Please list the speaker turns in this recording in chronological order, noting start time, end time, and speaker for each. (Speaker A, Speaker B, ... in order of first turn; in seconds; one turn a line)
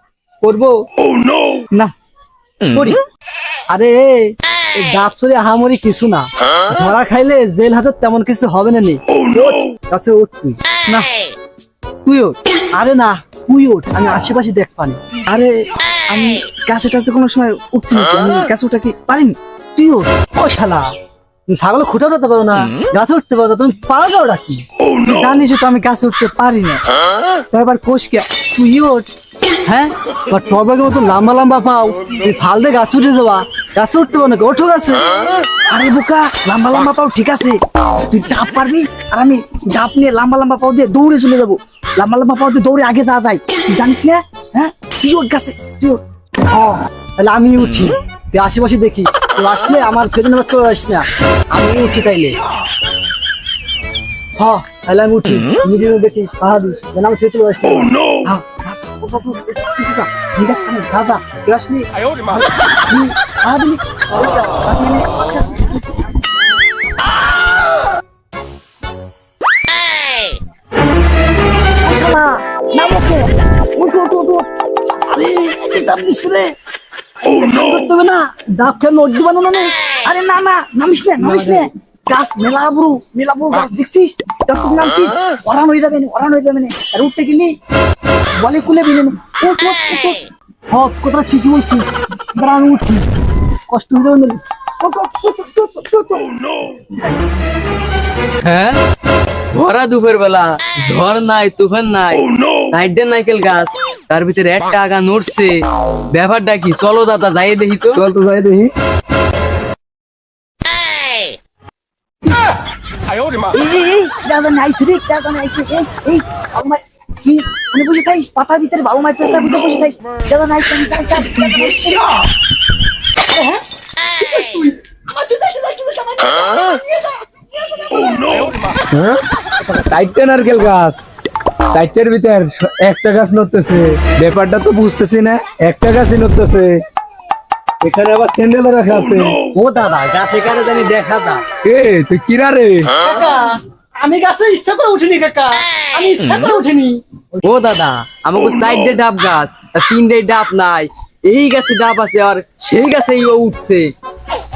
Speaker A: 0.4-0.7
Speaker A: 2.7-3.0
Speaker A: 3.7-11.1
Speaker A: 12.1-20.9
Speaker A: 21.5-26.8
Speaker A: 27.5-29.1
Speaker A: 29.6-35.0
Speaker A: 35.7-52.4
Speaker A: 54.4-66.1
Speaker A: 71.8-74.5
Speaker A: 75.1-76.5
Speaker A: 77.2-87.5
Speaker A: 88.4-93.0
Speaker A: 93.7-96.3
Speaker A: 96.9-97.3
Speaker B: 98.4-98.8
Speaker B: 99.5-105.6
Speaker B: 106.1-108.0
Speaker C: 107.9-108.7
Speaker A: 113.5-122.1
Speaker A: 123.3-123.6
Speaker A: 124.2-128.7
Speaker C: 128.9-131.0
Speaker C: 131.7-136.8
Speaker C: 137.8-139.4
Speaker A: 139.5-140.2
Speaker B: 140.1-141.4
Speaker C: 141.6-142.9
Speaker A: 143.0-147.4
Speaker B: 147.4-153.9